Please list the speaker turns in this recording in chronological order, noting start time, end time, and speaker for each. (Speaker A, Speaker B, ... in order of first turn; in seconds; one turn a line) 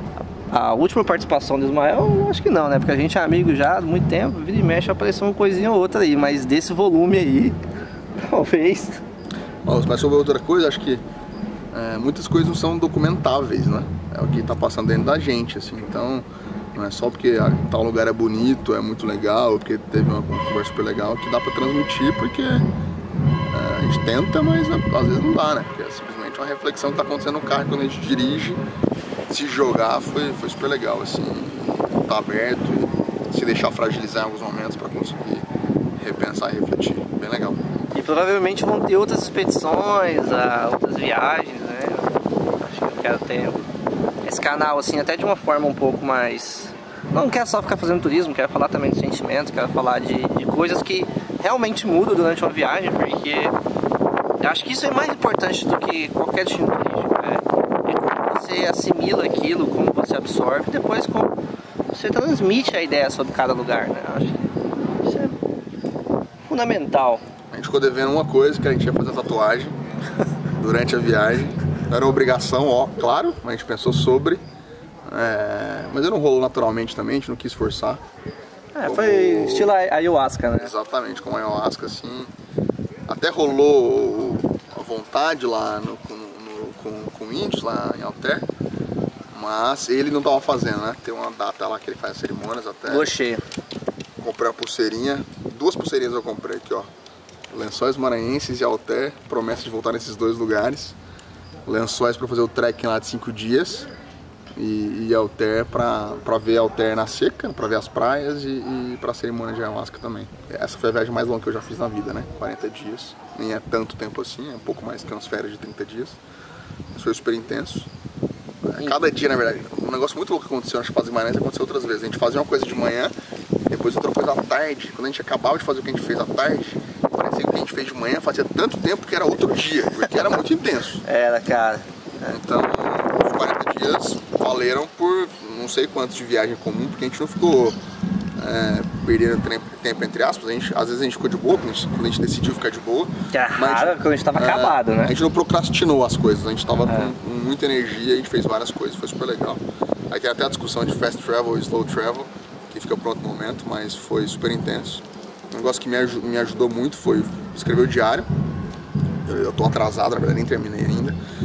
Speaker A: 0.5-7.6
Speaker A: 8.2-9.0
Speaker B: 9.6-11.0
Speaker B: 11.7-22.6
Speaker B: 23.5-28.6
Speaker B: 29.3-37.6
Speaker A: 37.9-43.6
Speaker A: 44.2-53.6
Speaker A: 54.4-61.4
Speaker A: 61.9-64.4
Speaker A: 65.0-65.3
Speaker A: 66.4-67.2
Speaker B: 67.5-69.8
Speaker B: 70.5-74.4
Speaker B: 75.0-78.0
Speaker A: 78.7-80.7
Speaker B: 78.8-79.7
Speaker B: 80.6-82.3
Speaker B: 83.1-88.5
Speaker B: 89.3-93.1
Speaker A: 92.8-93.4
Speaker B: 94.2-96.9
Speaker B: 97.5-101.0
Speaker B: 101.7-103.9
Speaker B: 104.5-116.2
Speaker B: 116.9-117.9
Speaker B: 118.6-123.1
Speaker B: 123.7-131.0
Speaker A: 131.1-132.3
Speaker B: 132.3-137.8
Speaker B: 138.4-158.3
Speaker A: 143.3-145.2
Speaker A: 146.9-147.1
Speaker B: 159.2-161.2